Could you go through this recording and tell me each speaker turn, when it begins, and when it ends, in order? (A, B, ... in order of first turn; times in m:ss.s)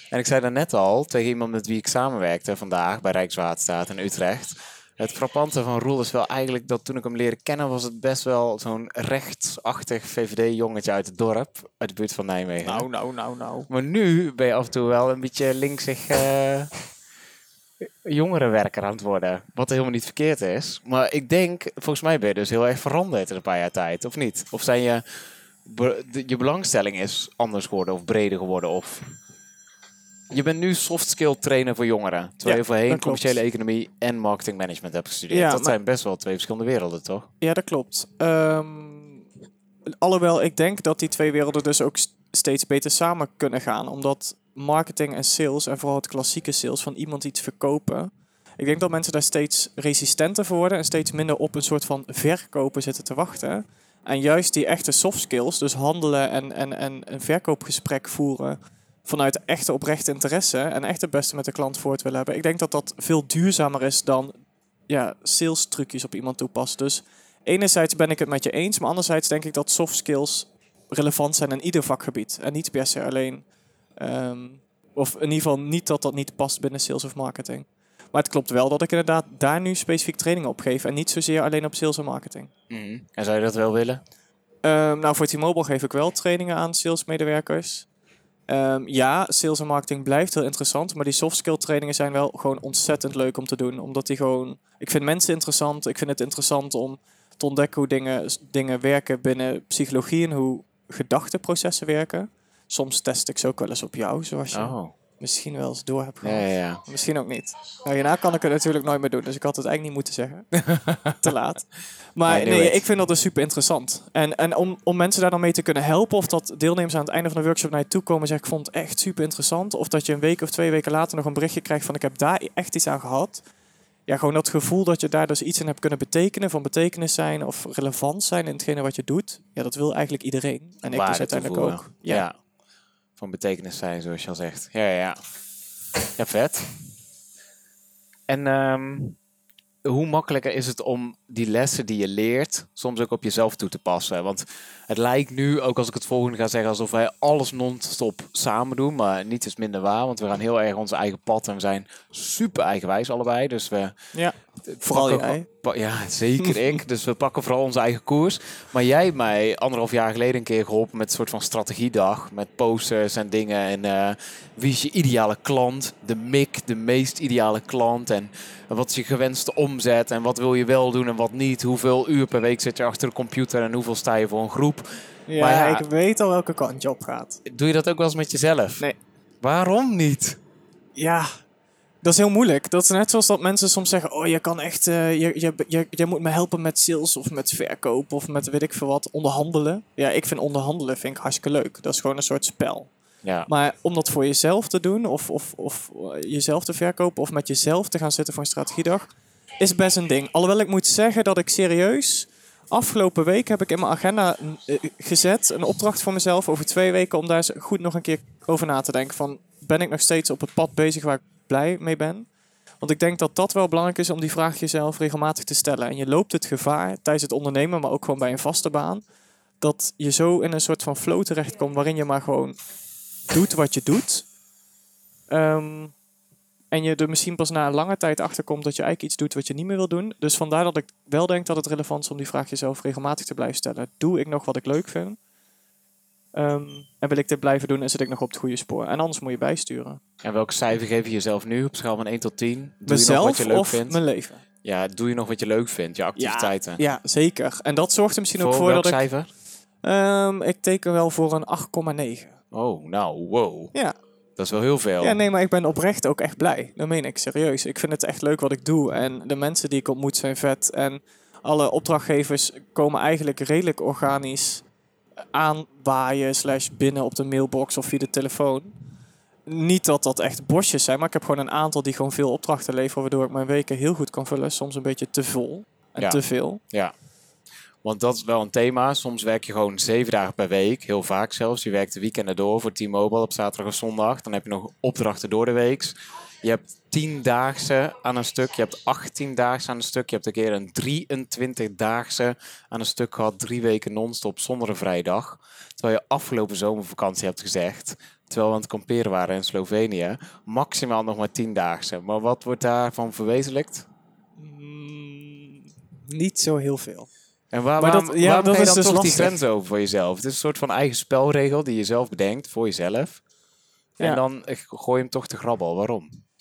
0:00.1-0:12.9 A
0:12.6-0:13.7 B
0:13.7-0:16.7 A
0:17.8-0:29.1 A
0:30.3-0:37.3 A
0:32.4-0:33.4 B
0:35.3-0:35.7 B
0:37.4-0:39.2 B
0:39.9-1:04.3 B
1:04.9-1:13.4 B
1:14.0-1:22.5 B
1:22.7-1:24.0 A
1:24.6-1:27.9 B
1:28.5-1:50.5 B
1:44.5-1:44.9 A
1:46.2-1:46.8 A
1:50.7-1:51.2 A
1:51.1-2:03.4 B
1:52.3-1:52.8 A
2:04.1-2:12.2 B
2:10.8-2:12.4 A
2:13.2-2:15.2 A
2:16.2-2:16.7 A
2:18.3-2:19.2 A
2:19.8-2:33.9 A
2:34.6-2:55.8 A
2:34.9-2:35.5 B
2:55.3-2:57.4 B
2:57.4-2:58.9 A
2:59.4-3:00.4 A
3:01.0-3:01.3 B
3:02.0-3:12.9 B
3:13.2-3:13.5 A
3:13.5-3:32.3 B
3:32.8-3:39.0 B
3:39.6-3:42.6 B
3:43.3-3:44.3 B
3:45.3-3:45.9 B
3:46.7-3:55.2 B
3:56.3-4:00.0 B
4:00.2-4:04.0 A
4:02.9-4:04.4 B
4:04.6-4:06.8 A
4:06.2-4:09.0 B
4:08.4-4:09.3 A
4:09.8-4:12.3 B
4:12.5-4:13.7 A
4:14.4-4:15.2 A
4:15.0-4:24.6 B
4:25.3-4:28.7 B
4:29.5-4:36.6 B
4:36.0-4:36.9 A
4:37.8-5:03.9 A
5:04.4-5:07.1 B
5:07.5-5:13.2 A
5:07.8-5:09.4 B
5:14.0-5:16.2 A